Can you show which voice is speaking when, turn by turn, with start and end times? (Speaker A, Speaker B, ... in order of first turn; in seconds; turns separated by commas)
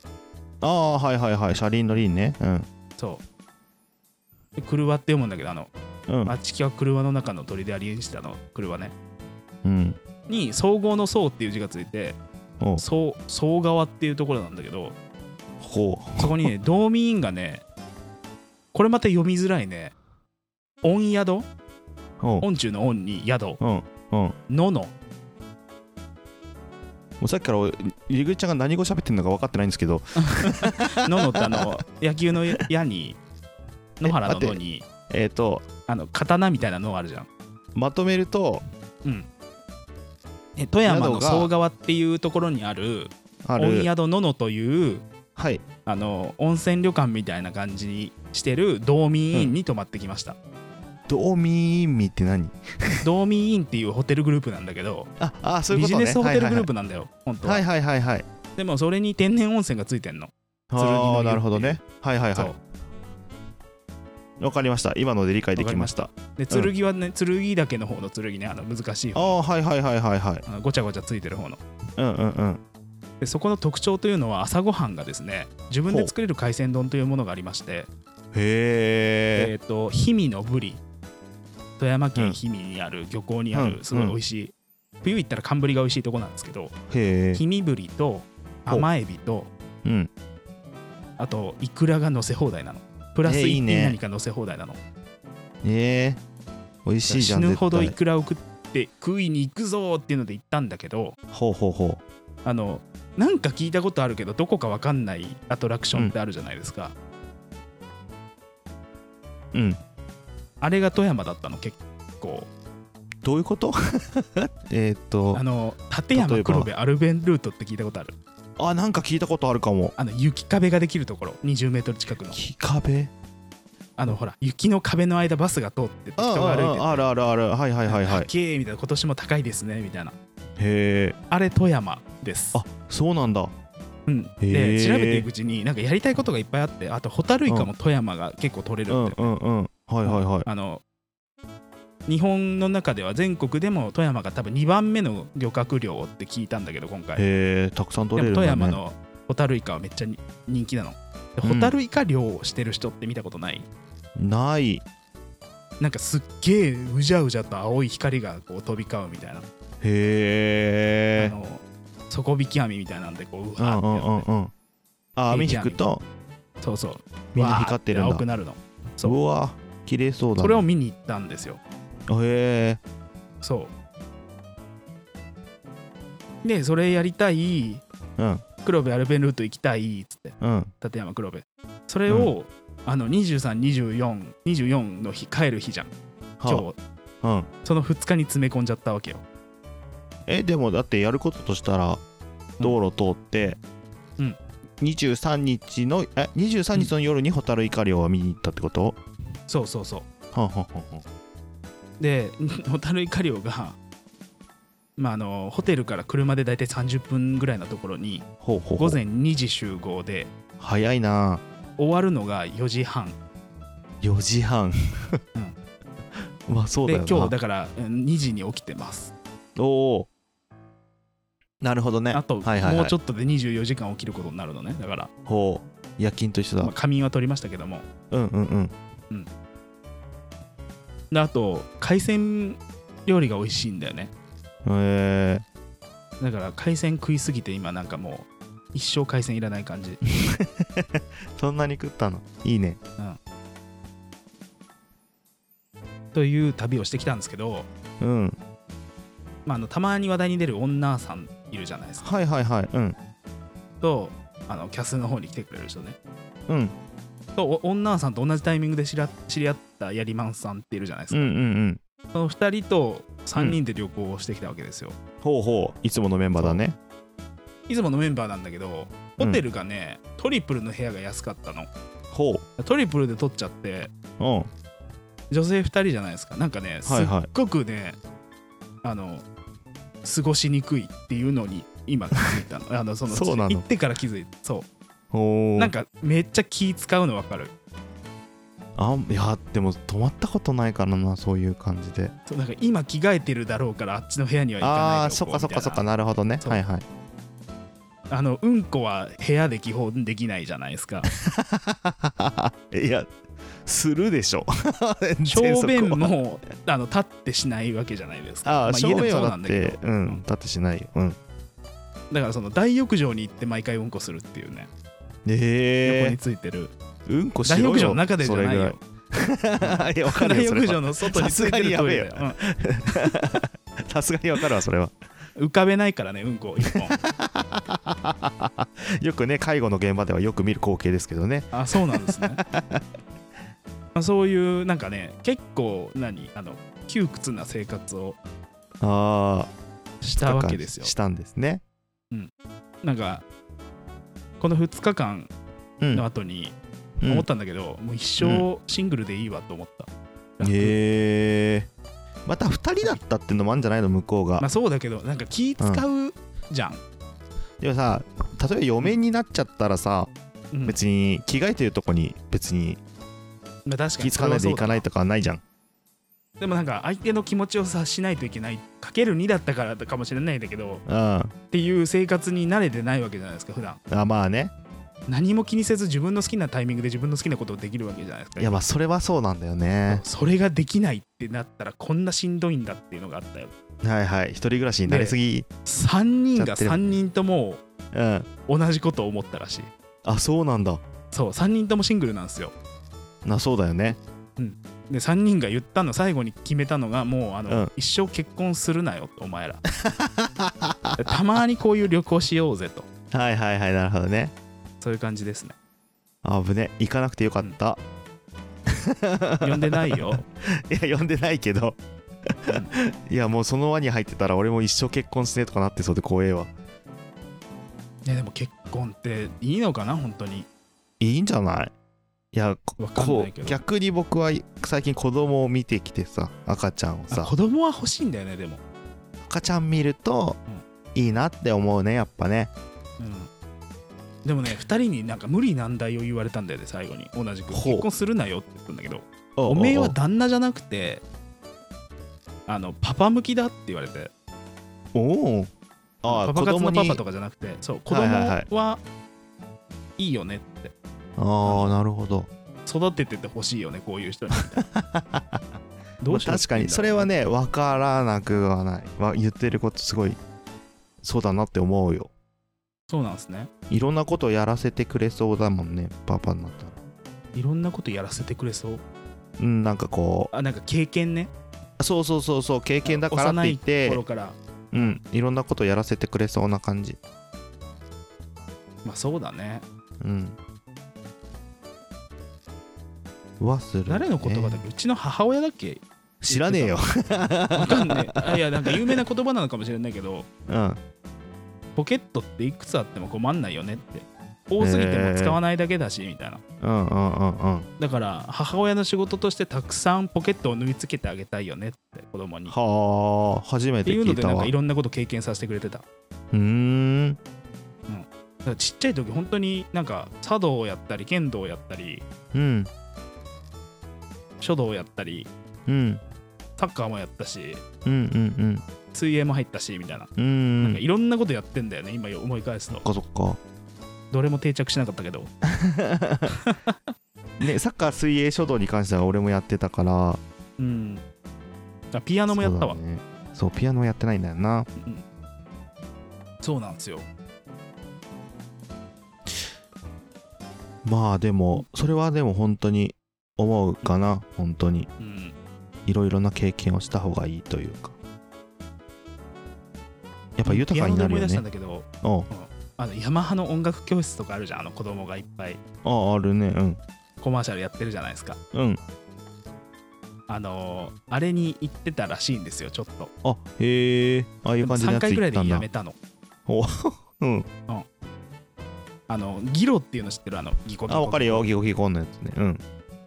Speaker A: 0.6-2.7, Speaker B: 3.0-3.2, Speaker B: 4.6-5.7, Speaker A: 6.1-6.3, Speaker B: 6.2-8.9, Speaker A: 9.6-10.0, Speaker B: 10.3-12.2, Speaker B: 12.8-14.9, Speaker A: 15.6-16.5, Speaker B: 16.2-17.6, Speaker B: 18.7-19.9, Speaker B: 20.8-21.5, Speaker B: 22.4-23.6, Speaker A: 23.6-24.3, Speaker B: 24.5-24.9, Speaker A: 27.2-31.7, Speaker B: 30.2-33.2, Speaker B: 34.0-34.9, Speaker A: 34.0-35.6, Speaker B: 35.9-37.3, Speaker A: 37.7-38.6, Speaker B: 40.6-45.0, Speaker A: 40.9-41.5, Speaker A: 43.4-43.9, Speaker A: 45.4-45.6, Speaker B: 45.9-50.4, Speaker A: 51.1-53.0, Speaker B: 53.0-55.1, Speaker A: 55.2-56.7, Speaker B: 55.7-57.6, Speaker A: 57.4-58.2, Speaker B: 58.5-61.8, Speaker A: 60.7-62.5, Speaker A: 64.4-66.7, Speaker B: 65.5-69.4, Speaker A: 69.1-70.4, Speaker B: 70.5-71.6, Speaker A: 72.0-72.6, Speaker B: 73.2-77.9, Speaker A: 78.3-79.5, Speaker B: 79.3-80.8, Speaker B: 81.8-86.7, Speaker A: 83.5-84.2, Speaker A: 86.9-87.4, Speaker B: 87.3-89.5, Speaker A: 89.8-90.1, Speaker B: 91.2-94.8, Speaker A: 93.2-94.0, Speaker A: 95.6-96.2, Speaker A: 96.8-97.9, Speaker B: 97.1-101.2, Speaker A: 101.3-102.0, Speaker B: 102.4-106.9, Speaker A: 109.5-109.8, Speaker B: 110.6-112.5, Speaker A: 113.2-115.4, Speaker B: 115.3-118.2, Speaker A: 116.1-116.7, Speaker A: 118.6-119.9, Speaker B: 120.0-122.4, Speaker A: 122.3-123.1, Speaker B: 124.0-127.1, Speaker A: 126.2-128.3, Speaker B: 127.9-130.2, Speaker A: 130.6-131.2, Speaker B: 131.3-132.6, Speaker A: 132.5-133.5, Speaker B: 134.1-139.3, Speaker A: 134.4-135.3, Speaker A: 138.9-140.4, Speaker B: 140.0-140.8, Speaker B: 142.1-147.2, Speaker A: 147.2-148.8, Speaker B: 148.2-153.7, Speaker A: 151.4-151.7, Speaker A: 154.2-154.8, Speaker B: 155.8-159.4, Speaker A: 159.8-161.3, Speaker B: 161.2-164.3, Speaker A: 163.6-164.5, Speaker A: 165.2-166.0, Speaker B: 165.3-165.8, Speaker B: 166.6-169.2, Speaker A: 167.3-168.2, Speaker A: 169.0-170.7, Speaker B: 170.4-171.6, Speaker A: 172.1-172.8, Speaker B: 173.4-173.7, Speaker B: 176.4-177.8, Speaker A: 178.2-178.4, Speaker B: 178.6-185.9, Speaker A: 180.4-180.7, Speaker A: 186.4-186.7, Speaker B: 186.4-186.8, Speaker A: 187.2-187.5, Speaker B: 187.6-189.2, Speaker A: 190.3-192.0, Speaker A: 192.6-193.6, Speaker A: 194.8-199.0, Speaker B: 199.5-200.1, Speaker A: 200.3-201.0, Speaker B: 202.0-203.8, Speaker B: 205.0-208.2, Speaker A: 208.4-209.0, Speaker B: 208.8-210.3, Speaker A: 210.6-211.4, Speaker B: 211.8-213.2, Speaker A: 214.0-215.2, Speaker A: 216.4-217.3, Speaker B: 216.8-219.1, Speaker A: 219.6-220.1, Speaker A: 221.6-222.9, Speaker B: 222.1-225.1, Speaker A: 225.2-226.7, Speaker B: 226.6-227.8, Speaker A: 228.1-228.7, Speaker B: 231.1-234.1, Speaker A: 234.6-235.4, Speaker B: 236.2-240.0, Speaker A: 240.1-242.8, Speaker B: 246.1-247.7, Speaker A: 248.0-248.4, Speaker B: 249.4-252.1, Speaker A: 252.0-252.9, Speaker B: 253.8-256.0, Speaker A: 256.5-256.7, Speaker B: 257.4-261.3, Speaker A: 261.1-261.8, Speaker B: 262.1-264.9, Speaker A: 265.2-266.8, Speaker B: 267.7-271.7, Speaker A: 272.1-272.4, Speaker B: 272.6-273.9, Speaker A: 274.2-274.5, Speaker B: 275.3-278.0, Speaker A: 276.9-277.3, Speaker B: 278.8-279.2, Speaker B: 280.0-284.6, Speaker A: 283.1-283.6, Speaker A: 285.1-285.7, Speaker B: 285.6-287.5, Speaker A: 288.8-292.1, Speaker B: 292.3-295.9, Speaker A: 294.6-296.9, Speaker B: 298.1-301.1, Speaker A: 301.1-303.1, Speaker A: 303.6-306.1, Speaker B: 305.3-310.2, Speaker A: 308.4-311.2, Speaker B: 312.1-314.7, Speaker A: 315.2-316.2, Speaker B: 315.8-316.7, Speaker A: 317.1-324.9, Speaker B: 317.4-318.8, Speaker B: 319.6-322.4, Speaker B: 325.4-327.0, Speaker A: 326.7-332.8, Speaker B: 331.5-332.4, Speaker B: 333.9-338.2, Speaker A: 338.8-339.5, Speaker B: 340.0-340.9, Speaker A: 340.2-341.6, Speaker B: 342.8-343.2, Speaker B: 344.4-345.3, Speaker B: 345.9-346.5, Speaker A: 347.0-347.2, Speaker B: 347.1-350.8, Speaker A: 350.4-351.7, Speaker A: 352.2-354.4, Speaker B: 354.4-356.8, Speaker A: 357.6-360.1, Speaker B: 360.5-360.8, Speaker A: 360.6-362.8, Speaker B: 363.6-364.8, Speaker A: 364.0-365.4, Speaker B: 366.4-370.8, Speaker A: 370.9-371.3, Speaker B: 371.5-373.8, Speaker A: 373.9-374.5, Speaker B: 375.1-378.6, Speaker A: 378.4-380.0, Speaker B: 379.9-383.5, Speaker A: 383.8-385.5, Speaker B: 384.9-387.6, Speaker A: 386.4-387.0, Speaker A: 387.9-388.3, Speaker B: 388.4-389.7, Speaker A: 390.0-390.8, Speaker B: 391.1-392.5, Speaker A: 393.2-394.0, Speaker B: 394.4-399.6, Speaker A: 399.8-401.1, Speaker B: 401.0-402.9, Speaker A: 403.1-404.3, Speaker B: 404.8-405.5, Speaker A: 406.2-407.8, Speaker A: 408.7-416.5, Speaker B: 409.4-410.2, Speaker B: 418.0-420.5, Speaker A: 421.0-421.7, Speaker A: 422.3-427.3, Speaker B: 422.8-423.6, Speaker B: 427.1-428.6, Speaker A: 429.2-430.4, Speaker A: 430.9-432.5, Speaker B: 433.0-433.3, Speaker B: 434.2-441.0, Speaker A: 437.5-437.9, Speaker A: 439.4-439.9, Speaker B: 442.5-444.1, Speaker A: 444.9-445.5, Speaker A: 446.0-447.0, Speaker B: 446.0-448.8, Speaker A: 447.9-448.4, Speaker B: 450.0-450.7, Speaker A: 451.2-452.3, Speaker B: 451.4-451.7, Speaker B: 452.6-454.6, Speaker A: 454.6-455.4, Speaker B: 456.0-457.1, Speaker A: 456.1-460.2, Speaker A: 461.0-462.1, Speaker B: 462.9-463.5, Speaker A: 463.7-466.8, Speaker B: 467.3-468.8, Speaker A: 469.4-470.3, Speaker B: 470.3-471.3, Speaker A: 471.8-474.0, Speaker B: 472.8-475.0, Speaker A: 474.7-477.0, Speaker B: 478.8-479.6, Speaker A: 480.0-480.4, Speaker A: 483.4-484.6, Speaker B: 483.9-486.8, Speaker A: 486.2-489.0, Speaker B: 487.5-490.3, Speaker A: 490.5-490.8, Speaker B: 491.8-496.4, Speaker A: 494.6-495.4, Speaker A: 496.6-497.7, Speaker B: 497.8-502.5, Speaker A: 502.5-504.5, Speaker B: 503.8-505.8, Speaker A: 506.3-507.2, Speaker B: 507.9-512.0, Speaker A: 512.3-512.7, Speaker B: 514.4-515.3, Speaker A: 515.7-516.0, Speaker B: 516.6-517.6, Speaker A: 517.8-518.6, Speaker B: 518.9-520.1, Speaker A: 520.2-520.8, Speaker B: 520.6-522.8, Speaker A: 522.7-523.4, Speaker B: 524.1-525.3, Speaker A: 525.4-526.3, Speaker B: 526.4-526.9, Speaker A: 527.4-530.2, Speaker B: 530.6-531.0, Speaker B: 531.9-532.8, Speaker A: 532.3-534.7, Speaker B: 534.8-535.0, Speaker B: 536.4-537.0, Speaker A: 540.8-544.9, Speaker B: 545.0-545.3, Speaker A: 545.9-548.0, Speaker A: 550.4-551.4, Speaker B: 550.4-555.6, Speaker A: 552.0-552.3, Speaker A: 555.8-556.8, Speaker B: 557.2-558.4, Speaker A: 558.5-558.8, Speaker B: 560.3-563.1, Speaker A: 563.2-565.6, Speaker B: 564.6-566.0, Speaker A: 566.5-567.5, Speaker B: 569.1-571.5, Speaker A: 570.9-572.6